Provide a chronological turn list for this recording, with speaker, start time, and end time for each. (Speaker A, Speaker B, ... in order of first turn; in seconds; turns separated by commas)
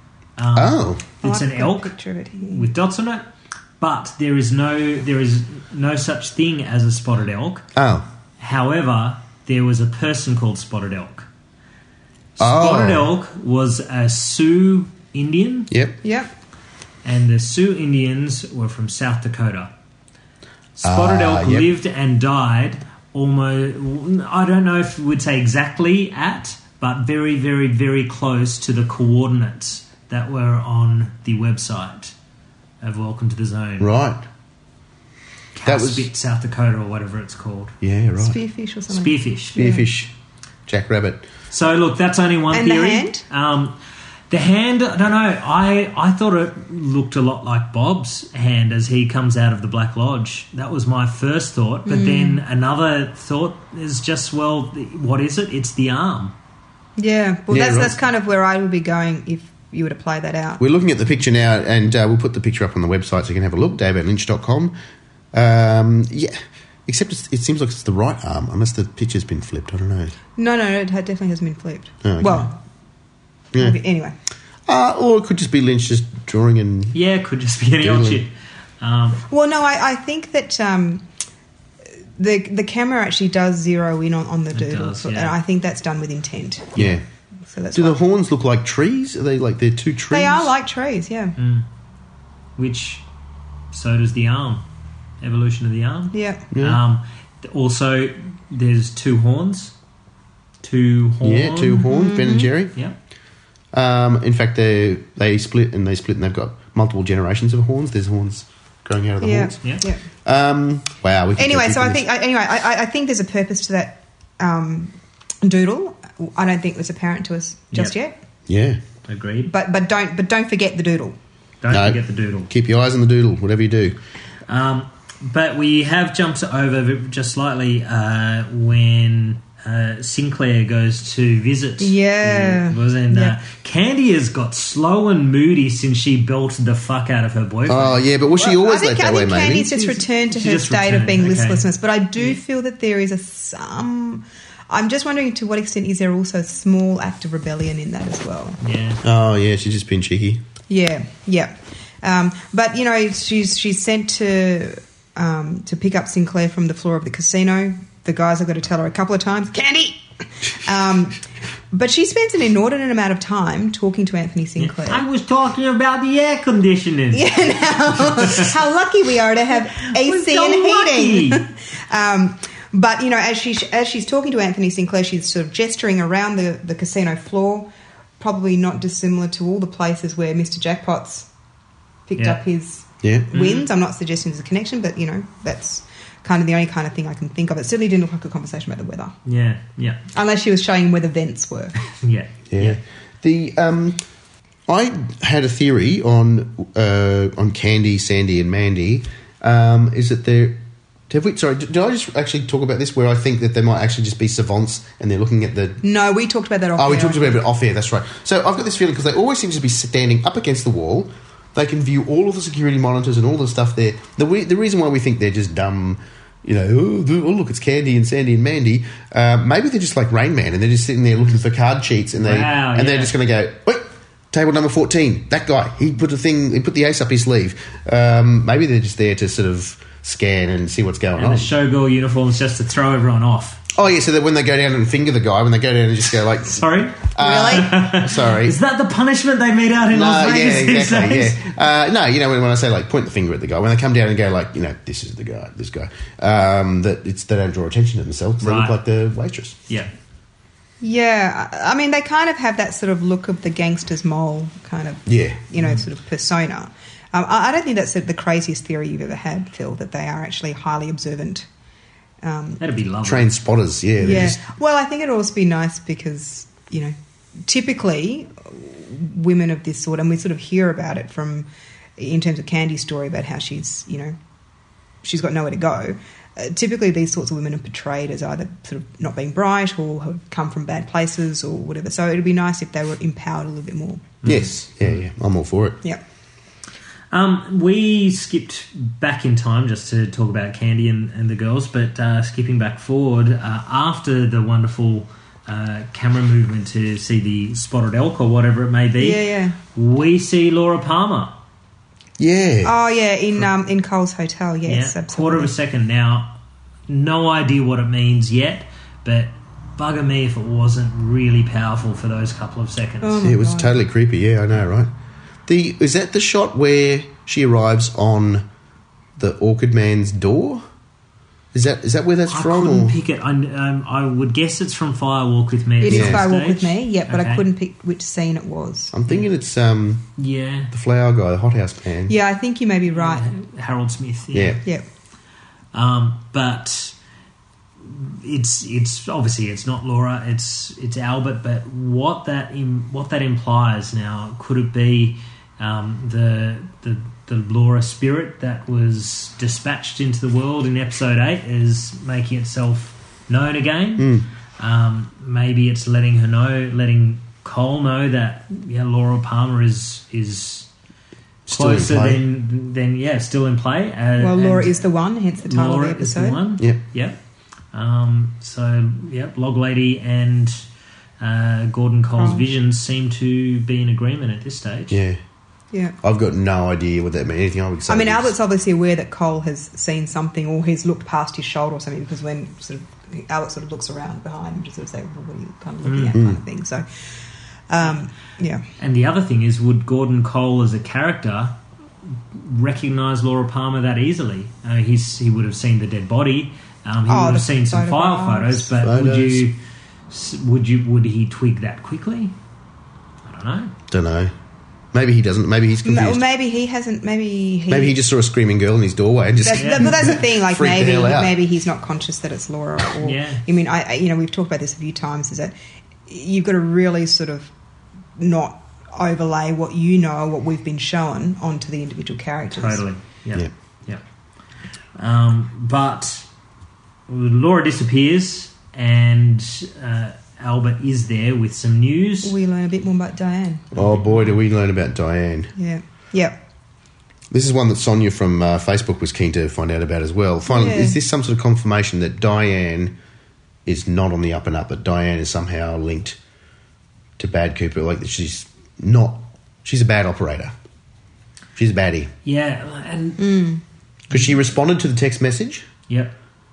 Speaker A: 0.4-3.3, Speaker B: 0.5-1.0, Speaker C: 1.2-2.7, Speaker A: 3.8-7.6, Speaker B: 7.8-8.1, Speaker A: 8.4-11.3, Speaker A: 12.4-15.7, Speaker B: 12.4-13.1, Speaker B: 15.7-16.0, Speaker C: 16.0-16.3, Speaker A: 17.0-19.7, Speaker A: 20.8-32.1, Speaker B: 20.8-21.7, Speaker A: 32.8-33.9, Speaker B: 33.8-34.2, Speaker A: 35.5-37.7, Speaker B: 35.6-36.1, Speaker B: 37.8-38.4, Speaker C: 38.2-39.9, Speaker A: 38.9-39.6, Speaker B: 39.5-40.1, Speaker B: 40.7-41.3, Speaker A: 41.5-43.7, Speaker C: 42.5-43.2, Speaker A: 44.3-56.3, Speaker C: 51.9-52.4, Speaker C: 57.0-60.6, Speaker B: 57.5-58.0, Speaker B: 60.6-64.7, Speaker B: 65.3-70.1, Speaker C: 70.4-72.5, Speaker B: 72.0-72.5, Speaker C: 73.5-74.2, Speaker B: 74.7-77.0, Speaker A: 76.9-79.2, Speaker B: 77.8-78.2, Speaker C: 79.3-81.0, Speaker C: 82.2-86.8, Speaker A: 84.5-85.3, Speaker B: 86.8-87.0, Speaker C: 87.5-88.0, Speaker B: 87.7-90.5, Speaker C: 90.1-91.3, Speaker A: 91.4-91.7, Speaker A: 92.6-93.0, Speaker A: 93.7-94.6, Speaker A: 95.2-99.7, Speaker C: 96.1-96.4, Speaker B: 96.5-96.8, Speaker A: 100.6-101.8, Speaker B: 101.2-102.7, Speaker C: 101.8-102.5, Speaker B: 103.7-109.6, Speaker C: 109.2-110.0, Speaker B: 110.2-112.0, Speaker C: 111.4-118.1, Speaker B: 118.5-118.8, Speaker A: 119.1-119.5, Speaker C: 119.5-121.2, Speaker A: 121.6-122.5, Speaker B: 121.7-124.0, Speaker A: 124.5-138.0, Speaker C: 131.8-133.4, Speaker B: 137.7-139.8, Speaker C: 138.3-148.6, Speaker A: 139.8-141.6, Speaker A: 148.6-149.0, Speaker B: 149.0-150.4, Speaker C: 150.7-165.0, Speaker A: 164.6-167.3, Speaker C: 167.1-177.7, Speaker A: 168.0-168.5, Speaker A: 169.8-171.5, Speaker C: 178.2-181.3, Speaker C: 182.1-189.1, Speaker B: 183.0-183.3, Speaker A: 183.3-183.7, Speaker A: 189.2-190.0, Speaker C: 190.1-191.8, Speaker A: 191.9-192.8, Speaker B: 192.5-194.0, Speaker B: 194.7-205.8, Speaker C: 205.8-207.4, Speaker B: 206.8-231.5, Speaker A: 222.2-223.1, Speaker A: 231.2-233.6, Speaker B: 233.7-238.6, Speaker A: 236.5-241.5, Speaker C: 237.2-237.7, Speaker B: 239.9-249.6, Speaker A: 248.4-248.8, Speaker C: 250.8-261.5, Speaker B: 255.1-255.4, Speaker C: 262.2-262.6, Speaker A: 262.6-263.3, Speaker B: 263.0-264.4, Speaker C: 264.0-274.1, Speaker C: 275.0-284.1, Speaker A: 284.2-284.9, Speaker B: 284.2-285.8, Speaker A: 287.1-301.4, Speaker C: 299.0-299.6, Speaker B: 302.2-302.7, Speaker C: 302.6-305.5, Speaker A: 304.7-306.4, Speaker A: 306.9-313.2, Speaker C: 313.0-313.8, Speaker B: 313.2-314.9, Speaker B: 315.4-318.4, Speaker B: 319.2-320.6, Speaker B: 321.5-323.0, Speaker A: 322.3-327.4, Speaker C: 325.8-328.9, Speaker B: 325.9-326.2, Speaker B: 328.9-330.1, Speaker A: 330.2-330.7, Speaker B: 330.7-332.1, Speaker C: 332.1-333.3, Speaker A: 332.9-334.6, Speaker B: 334.3-334.6, Speaker A: 335.7-336.9, Speaker A: 337.8-360.7, Speaker B: 354.0-354.3, Speaker B: 361.5-362.2, Speaker A: 361.5-364.9, Speaker C: 364.2-366.4, Speaker A: 365.4-367.1, Speaker A: 367.7-370.6, Speaker A: 371.2-375.0, Speaker C: 372.2-372.5, Speaker B: 374.9-375.2, Speaker B: 376.0-378.3, Speaker C: 377.9-386.9, Speaker A: 385.8-386.2, Speaker B: 386.1-386.4, Speaker C: 387.7-388.6, Speaker A: 388.8-391.6, Speaker A: 392.3-399.6, Speaker C: 397.1-398.7, Speaker B: 398.8-399.5, Speaker A: 400.1-402.3, Speaker A: 403.2-403.7, Speaker B: 403.9-404.3, Speaker B: 404.9-406.2, Speaker C: 405.8-407.9, Speaker B: 407.7-411.4, Speaker C: 409.4-415.5, Speaker A: 409.6-410.1, Speaker A: 413.0-413.4, Speaker C: 416.1-417.5, Speaker C: 418.2-422.8, Speaker A: 422.5-424.0, Speaker A: 424.9-426.2, Speaker A: 427.1-432.3, Speaker C: 432.2-433.7, Speaker B: 433.7-435.5, Speaker C: 435.6-436.4, Speaker B: 437.3-442.9, Speaker C: 440.5-441.0, Speaker B: 443.6-446.2, Speaker B: 447.2-450.5, Speaker B: 451.6-452.1, Speaker A: 452.2-453.4, Speaker C: 453.2-453.6, Speaker B: 454.1-455.7, Speaker A: 455.9-456.1